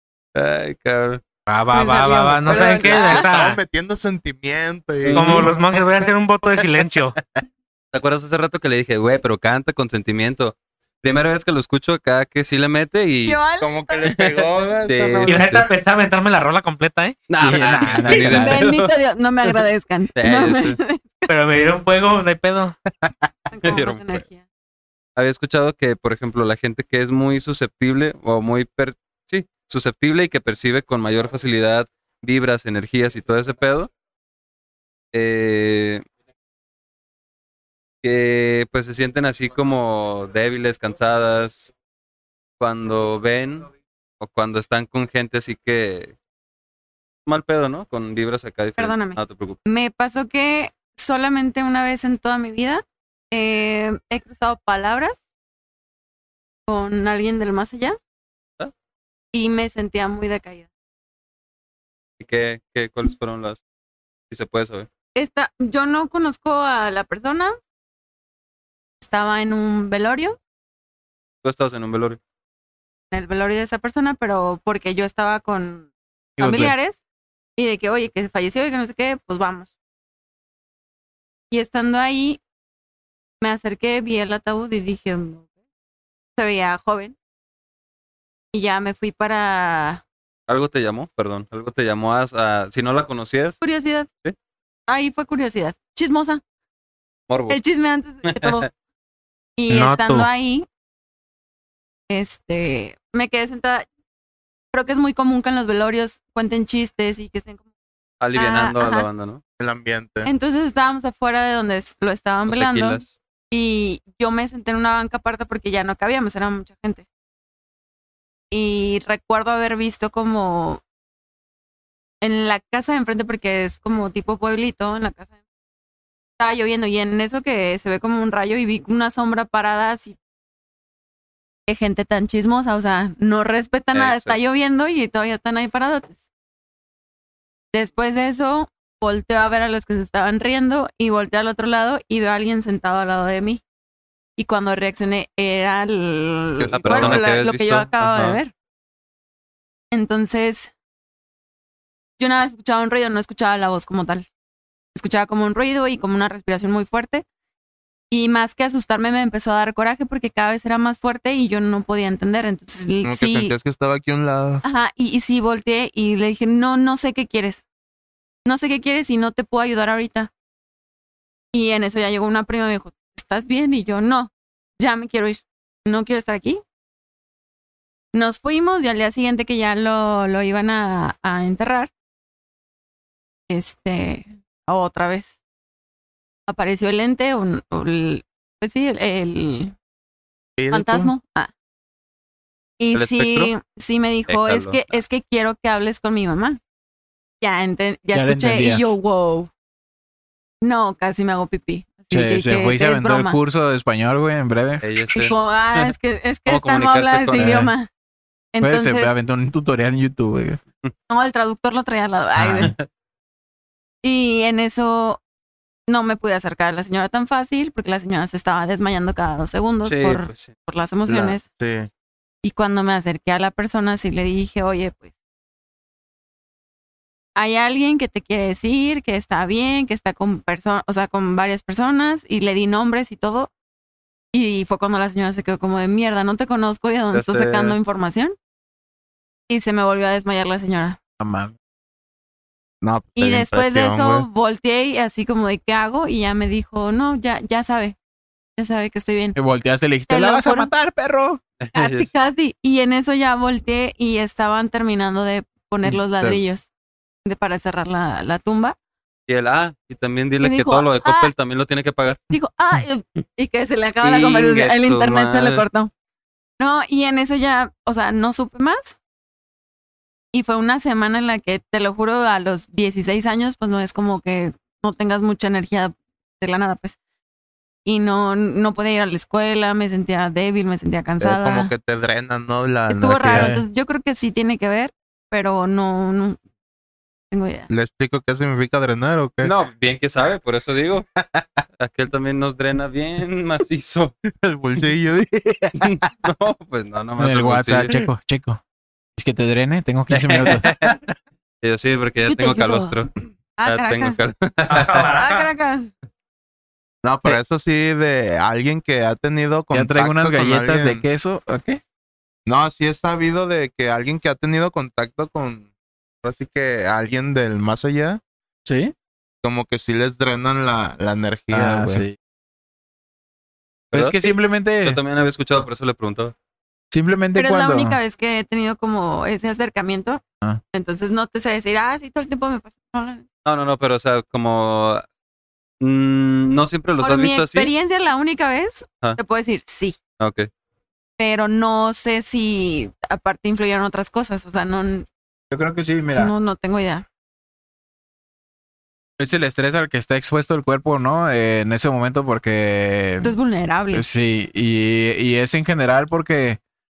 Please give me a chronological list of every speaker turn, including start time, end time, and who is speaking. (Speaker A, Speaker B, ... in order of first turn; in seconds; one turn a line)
Speaker A: 0.3-1.2
Speaker B: 1.5-3.6
Speaker C: 1.8-3.3
Speaker D: 2.4-5.5
Speaker A: 5.0-5.5
Speaker B: 5.1-7.2
Speaker A: 7.9-13.4
Speaker C: 13.3-14.0
Speaker D: 13.6-15.6
Speaker A: 14.8-15.7
Speaker B: 15.3-17.2
Speaker A: 17.3-19.6
Speaker E: 17.4-18.6
Speaker C: 18.2-21.3
Speaker A: 20.2-20.8
Speaker B: 21.3-22.8
Speaker C: 23.5-24.4
Speaker A: 23.6-24.2
Speaker A: 25.2-33.9
Speaker A: 35.1-36.0
Speaker A: 38.0-41.7
Speaker A: 42.6-43.7
Speaker A: 44.2-46.1
Speaker A: 47.3-49.6
Speaker C: 48.8-55.2
Speaker C: 56.7-58.0
Speaker C: 59.3-60.7
Speaker A: 62.2-63.6
Speaker A: 64.3-64.9
Speaker C: 65.2-67.5
Speaker C: 69.0-70.4
Speaker A: 71.4-72.2
Speaker C: 73.1-75.9
Speaker E: 76.4-76.7
Speaker C: 76.4-77.0
Speaker C: 77.6-79.7
Speaker C: 81.5-82.4
Speaker C: 83.4-85.5
Speaker C: 86.4-87.2
Speaker C: 88.5-90.0
Speaker A: 90.5-93.6
Speaker C: 93.6-94.1
Speaker C: 94.9-96.4
Speaker A: 97.3-97.6
Speaker C: 97.5-98.7
Speaker A: 98.2-98.7
Speaker C: 99.6-100.7
Speaker B: 99.7-100.3
Speaker C: 102.1-103.9
Speaker C: 104.7-107.6
Speaker A: 108.2-109.4
Speaker C: 108.3-109.1
Speaker D: 109.6-110.3
Speaker C: 110.2-117.0
Speaker A: 112.5-113.1
Speaker C: 118.5-120.8
Speaker C: 122.2-125.4
Speaker C: 126.4-130.2
Speaker C: 131.7-136.2
Speaker A: 133.9-134.4
Speaker C: 137.7-143.6
Speaker C: 144.4-148.5
Speaker D: 146.6-147.3
Speaker A: 146.7-148.4
Speaker C: 149.9-150.7
Speaker C: 152.2-154.3
Speaker C: 154.9-157.2
Speaker C: 158.1-163.5
Speaker D: 163.1-164.6
Speaker C: 164.6-167.6
Speaker C: 168.4-170.3
Speaker C: 171.5-176.6
Speaker C: 178.1-181.9
Speaker C: 183.5-185.4
Speaker C: 186.5-189.8
Speaker D: 190.6-191.1
Speaker C: 190.7-191.5
Speaker C: 192.8-196.6
Speaker A: 192.9-193.5
Speaker A: 194.3-195.0
Speaker C: 197.4-199.5
Speaker E: 198.1-199.0
Speaker C: 200.6-203.4
Speaker E: 202.1-204.9
Speaker A: 204.8-205.9
Speaker C: 205.1-207.9
Speaker A: 206.5-207.6
Speaker E: 207.4-207.7
Speaker C: 208.5-209.2
Speaker E: 208.6-210.6
Speaker C: 211.1-212.7
Speaker E: 212.4-212.7
Speaker C: 214.0-215.2
Speaker C: 215.9-221.4
Speaker A: 219.8-220.5
Speaker D: 221.1-221.9
Speaker C: 222.4-225.1
Speaker C: 227.4-233.5
Speaker C: 234.3-238.3
Speaker A: 237.1-237.8
Speaker C: 239.5-241.0
Speaker E: 241.2-241.5
Speaker D: 242.8-244.3
Speaker C: 243.2-248.0
Speaker C: 248.6-249.4
Speaker E: 249.3-251.4
Speaker C: 250.1-250.7
Speaker A: 251.6-252.1
Speaker C: 251.8-256.7
Speaker C: 257.2-258.8
Speaker A: 259.3-262.2
Speaker C: 260.4-261.3
Speaker C: 262.3-265.9
Speaker A: 264.0-265.6
Speaker C: 266.6-269.0
Speaker C: 270.3-277.0
Speaker C: 277.9-281.7
Speaker D: 281.2-283.6
Speaker C: 282.9-286.4
Speaker E: 283.3-283.6
Speaker C: 287.3-287.7
Speaker D: 287.7-289.5
Speaker A: 289.4-291.1
Speaker A: 291.8-294.1
Speaker D: 294.4-296.0
Speaker A: 295.8-298.1
Speaker E: 297.2-298.6
Speaker E: 299.2-300.8
Speaker A: 300.1-301.0
Speaker A: 301.6-303.1
Speaker C: 302.3-302.9
Speaker C: 303.6-304.2
Speaker A: 303.6-305.1
Speaker B: 304.7-305.5
Speaker C: 305.1-305.9
Speaker D: 307.0-311.0
Speaker E: 309.7-311.8
Speaker D: 312.5-315.7
Speaker D: 316.2-318.2
Speaker E: 318.7-318.9
Speaker D: 319.4-322.1
Speaker E: 321.5-322.2
Speaker A: 323.9-326.3
Speaker E: 323.9-325.0
Speaker E: 326.9-328.0
Speaker C: 327.4-330.2
Speaker C: 330.7-333.2
Speaker A: 333.4-335.0
Speaker A: 335.8-337.7
Speaker C: 337.0-340.0
Speaker A: 340.2-340.5
Speaker C: 341.2-345.1
Speaker E: 345.5-346.3
Speaker C: 346.2-347.1
Speaker E: 349.2-353.4
Speaker C: 353.2-354.1
Speaker E: 353.9-356.6